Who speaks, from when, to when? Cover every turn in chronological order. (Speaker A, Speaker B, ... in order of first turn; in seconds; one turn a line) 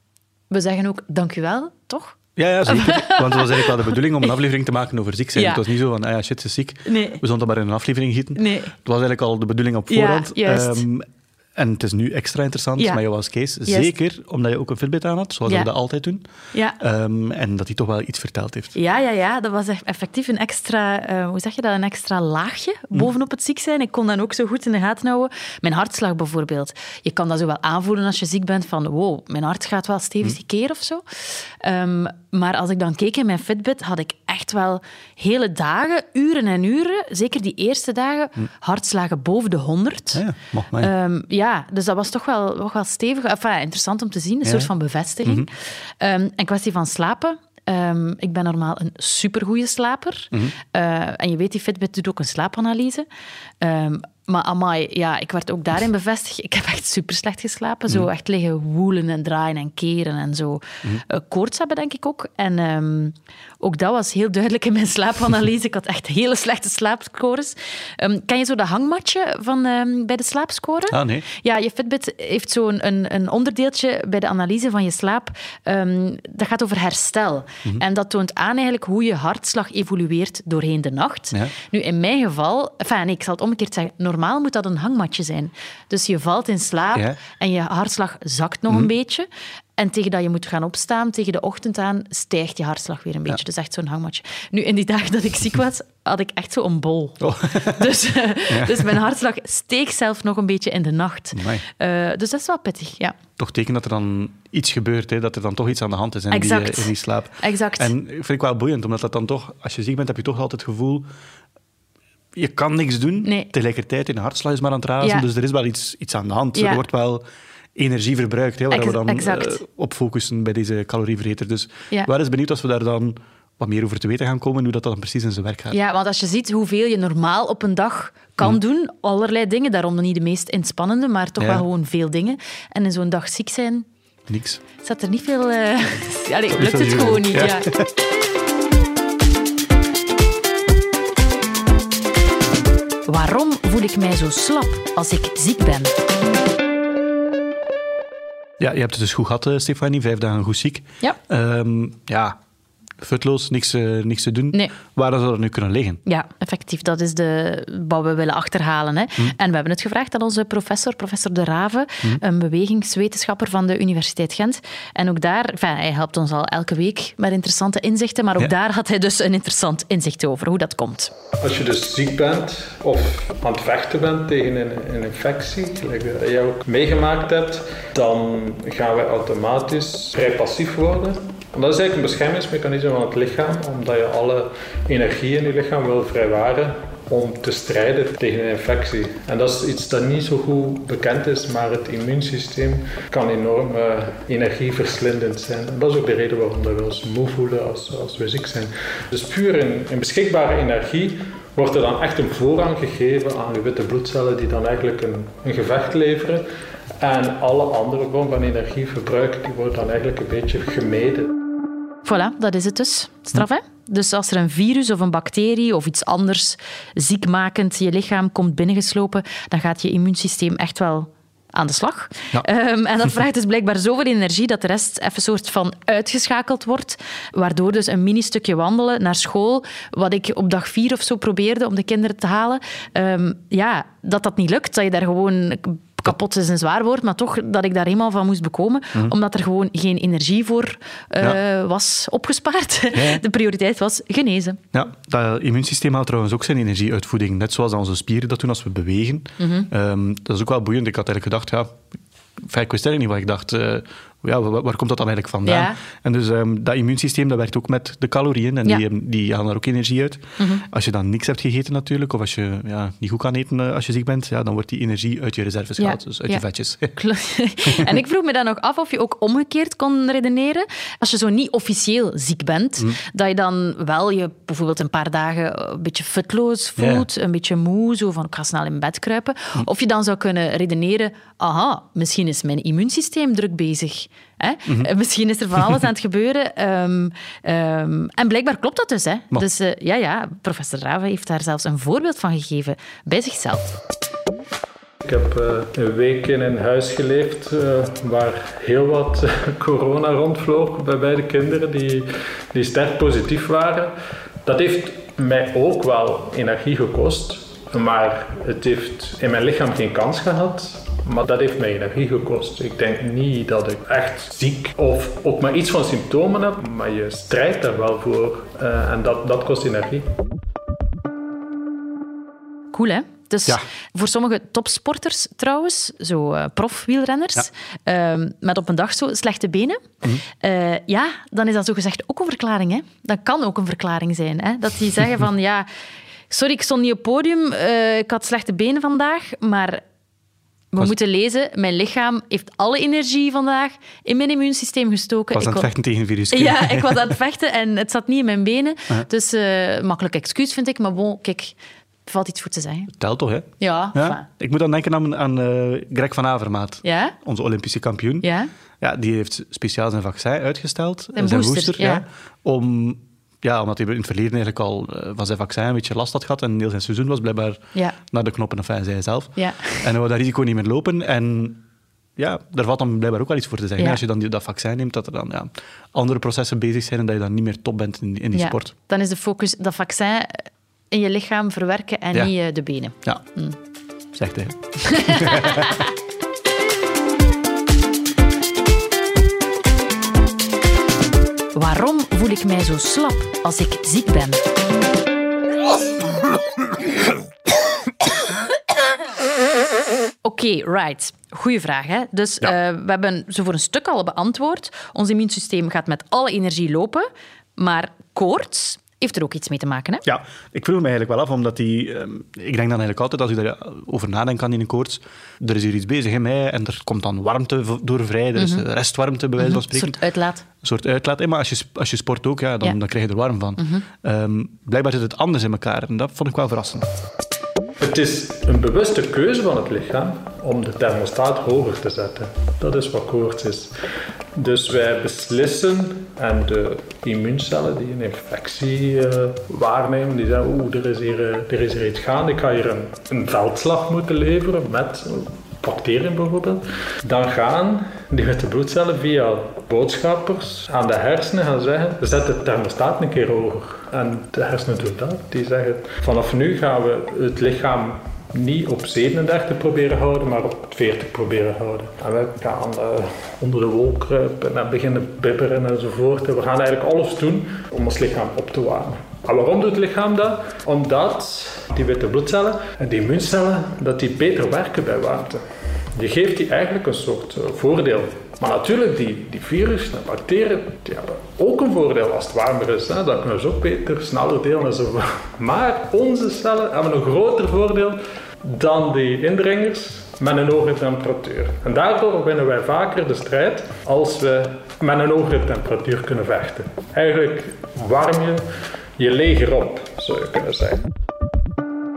Speaker A: 0.5-4.3
Speaker B: 2.4-11.1
Speaker A: 5.3-5.7
Speaker A: 6.8-7.2
Speaker A: 8.3-8.7
Speaker A: 9.9-10.8
Speaker B: 11.6-16.2
Speaker A: 13.7-13.9
Speaker A: 15.5-15.7
Speaker A: 16.5-16.8
Speaker B: 16.8-18.8
Speaker A: 18.7-40.2
Speaker B: 40.1-40.9
Speaker A: 40.8-53.1
Speaker B: 44.4-44.7
Speaker A: 53.6-103.2
Speaker B: 70.9-71.3
Speaker B: 97.2-97.9
Speaker B: 98.5-99.0
Speaker B: 101.3-101.7
Speaker B: 103.4-111.1
Speaker A: 106.3-107.9
Speaker B: 112.4-125.8
Speaker A: 113.2-113.5
Speaker A: 115.0-115.3
Speaker A: 116.5-116.8
Speaker A: 118.7-119.6
Speaker A: 125.7-133.9
Speaker B: 134.3-134.6
Speaker A: 134.8-137.7
Speaker B: 136.5-137.9
Speaker A: 143.1-145.9
Speaker B: 148.6-152.4
Speaker B: 153.0-156.0
Speaker A: 156.1-171.1
Speaker C: 171.4-206.4
Speaker C: 207.0-211.3
Speaker A: 212.1-244.6
Speaker B: 242.9-243.2
Speaker B: 244.7-251.8
Speaker A: 249.4-249.7
Speaker B: 252.4-267.0
Speaker A: 255.4-255.8
Speaker A: 260.4-260.6
Speaker A: 265.8-293.8
Speaker B: 267.7-267.9
Speaker B: 276.8-277.1
Speaker C: 295.1-303.9
Speaker C: 304.4-320.1
Speaker A: 322.7-335.7
Speaker A: 336.3-339.8
Speaker A: 340.7-345.7
Speaker B: 345.3-347.1
Speaker A: 346.3-352.9
Speaker B: 352.9-358.3
Speaker A: 353.6-354.2
Speaker A: 356.8-357.2
Speaker A: 358.2-358.5
Speaker B: 358.8-371.6
Speaker A: 361.1-362.0
Speaker A: 369.4-369.9
Speaker B: 372.2-378.8
Speaker A: 378.3-383.6
Speaker B: 384.1-385.8
Speaker A: 384.9-385.9
Speaker A: 391.5-394.4
Speaker A: 400.2-410.1
Speaker B: 410.1-420.0
Speaker A: 418.4-418.6
Speaker A: 419.4-420.5
Speaker B: 420.6-426.9
Speaker A: 423.6-423.9
Speaker C: 427.8-433.7
Speaker C: 434.4-475.4
Speaker C: 476.0-498.5
Speaker C: 499.0-500.9